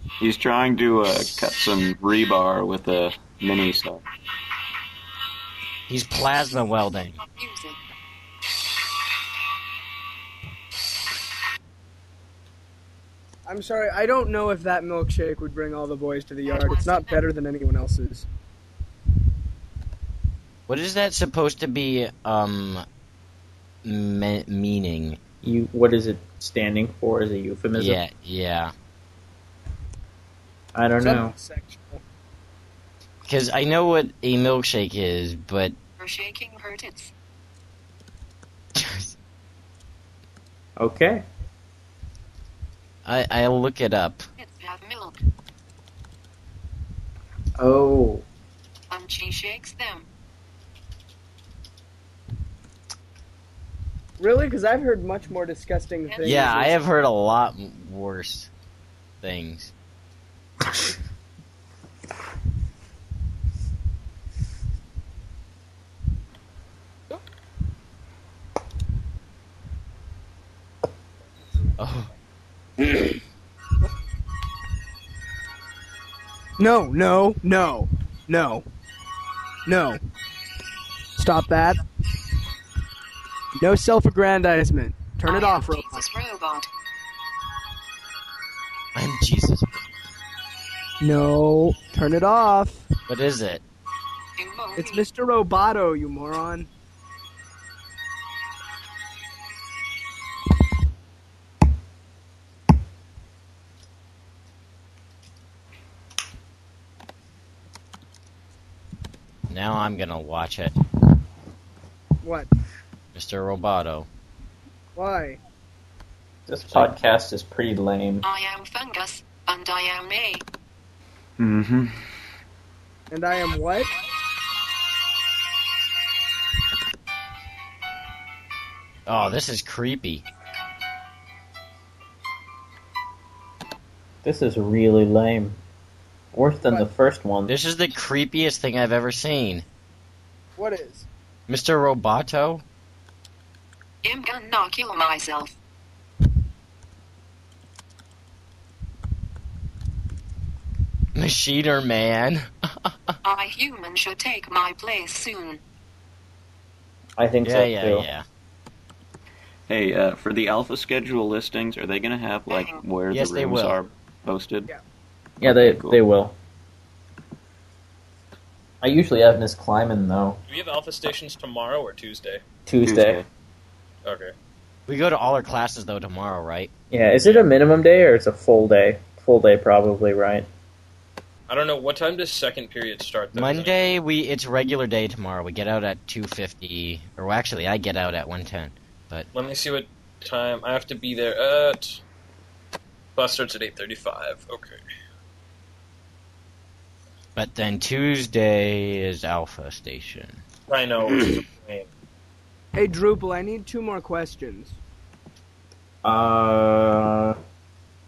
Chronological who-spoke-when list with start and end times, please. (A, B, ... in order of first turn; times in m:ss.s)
0:00.2-0:04.0 A
0:05.9-0:07.2 B
0:07.2-0:07.8 C
0:13.5-0:18.3 D
0:16.4-0:17.2 C
0:20.7-0:22.8 B
0:23.8-0:25.2 B
0:25.4-0:28.0 E
0:27.8-0:28.7 B
0:30.8-0:31.3 E
0:31.0-0:32.0 D
0:33.2-0:35.8 B
0:36.0-0:37.1 C
0:38.8-0:39.1 B
0:40.8-0:41.2 E
0:43.0-0:44.2 B
0:44.4-0:45.2 C
0:47.6-0:48.2 E
0:48.9-0:50.1 C
0:54.2-0:56.7 D
0:56.1-0:56.7 C
0:56.2-0:58.5 B
0:59.2-0:59.7 B
1:11.8-1:12.1 B
1:16.6-1:18.6 D
1:19.7-1:20.0 D
1:21.2-1:21.8 D
1:23.6-1:26.1 D
1:25.2-1:26.7 C
1:29.0-1:29.7 B
1:31.0-1:32.9 D
1:33.1-1:33.6 B
1:34.4-1:35.0 C
1:34.8-1:36.7 D
1:49.5-1:50.8 B
1:52.2-1:52.5 D
1:53.2-1:54.1 B
1:55.0-1:55.4 D
1:56.5-1:58.2 E
1:58.2-2:00.4 C
2:01.4-2:01.9 A
2:03.1-2:03.9 D
2:09.1-2:10.2 B
2:14.2-2:15.6 E
2:16.3-2:17.5 E
2:17.5-2:19.6 B
2:20.6-2:21.1 D
2:21.5-2:22.6 B
2:24.0-2:25.6 C
2:31.2-2:33.2 B
2:33.2-2:35.6 C
2:37.2-2:38.1 E
2:37.4-2:38.2 B
2:39.7-2:44.7 A
2:42.5-2:42.8 C
2:43.1-2:43.8 B
2:45.4-2:46.4 E
2:45.4-2:46.0 A
2:48.8-2:50.4 E
2:50.5-2:52.4 F
2:52.7-2:53.2 E
2:52.8-2:53.3 A
2:54.0-2:54.3 F
2:54.9-2:56.7 B
2:56.9-3:00.5 E
3:01.5-3:04.0 F
3:03.4-3:09.3 B
3:09.3-3:12.0 F
3:13.2-3:14.8 F
3:17.4-3:20.4 B
3:20.7-3:21.9 F
3:22.8-3:24.8 D
3:26.0-3:27.4 E